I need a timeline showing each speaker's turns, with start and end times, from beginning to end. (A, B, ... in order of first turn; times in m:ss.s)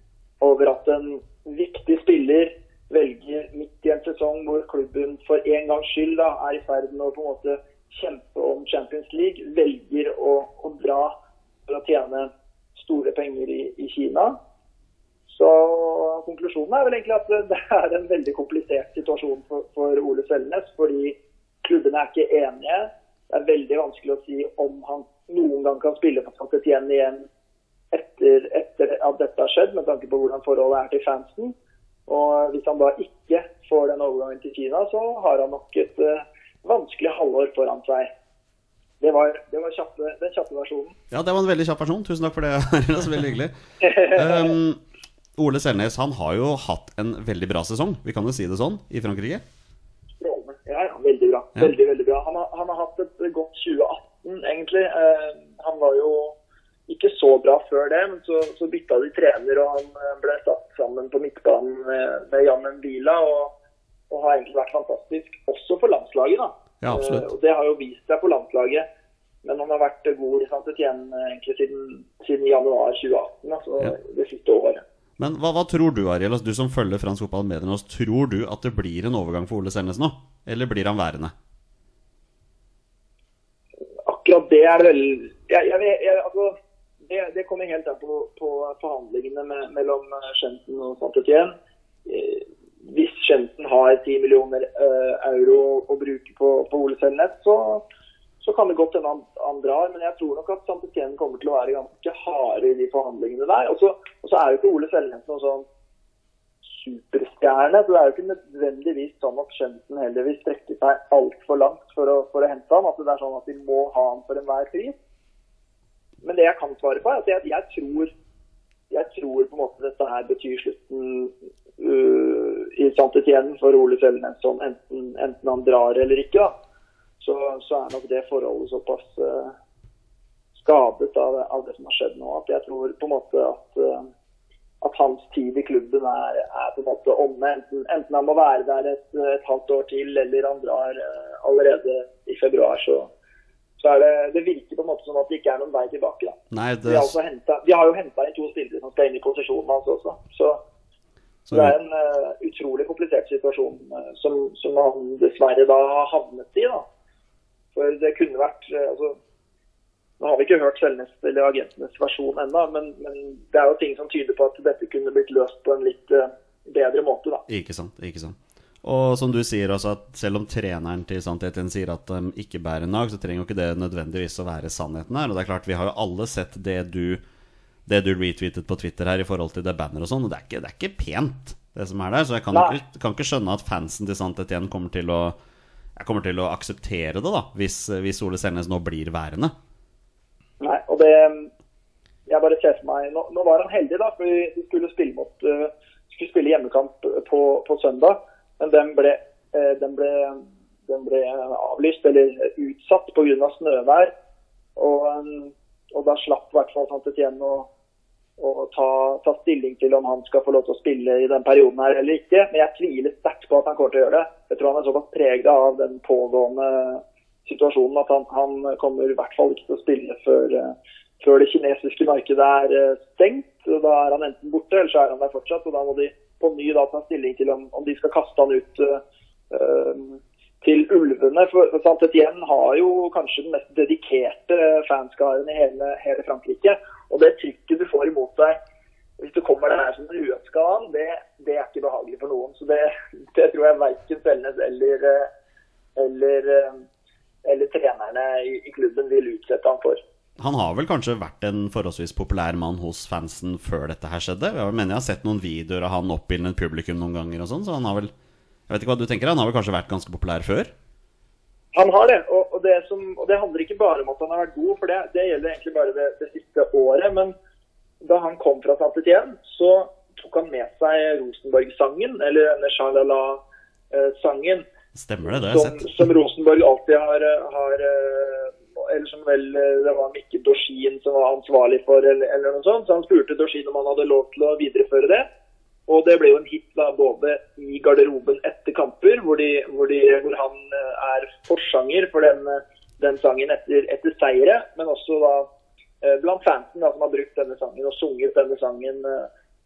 0:00.4-0:11.1 A
0:11.7-0:14.4 A
0:15.3-0:27.2 A
0:27.9-0:31.5 A
0:32.1-0:38.1 A
0:39.0-0:40.9 A
0:41.1-0:44.8 B
0:43.8-0:44.5 A
0:45.4-0:49.4 B
0:50.2-0:56.4 A
0:56.9-1:03.5 A
1:04.1-1:08.9 A
1:06.8-1:07.3 B
1:09.4-1:14.8 A
1:15.2-1:21.3 B
1:24.1-1:26.5 A
1:27.0-1:31.5 A
1:32.1-1:37.8 A
1:38.4-1:45.6 A
1:46.7-1:54.9 A
1:56.2-1:58.1 A
1:58.9-2:06.5 A
2:07.2-2:09.5 A
2:10.6-2:14.1 A
2:14.8-2:23.1 A
2:23.8-2:30.6 A
2:26.5-2:27.2 B
2:31.5-2:31.8 B
2:31.5-2:36.8 A
2:37.8-2:39.2 A
2:40.2-2:47.4 A
2:47.5-2:57.2 B
2:57.9-3:05.4 B
3:06.0-3:09.5 B
3:10.6-3:11.5 A
3:12.3-3:24.1 A
3:24.8-3:27.7 A
3:28.4-3:49.0 A
3:49.5-3:58.6 A
3:59.2-4:05.3 A
4:06.0-4:06.8 A
4:07.5-4:10.0 A
4:10.4-4:18.1 B
4:18.7-4:20.7 B
4:21.8-4:27.3 A
4:28.0-4:34.6 A
4:35.0-4:35.9 B
4:35.3-4:45.3 A
4:45.9-4:55.5 A
4:56.0-4:59.3 A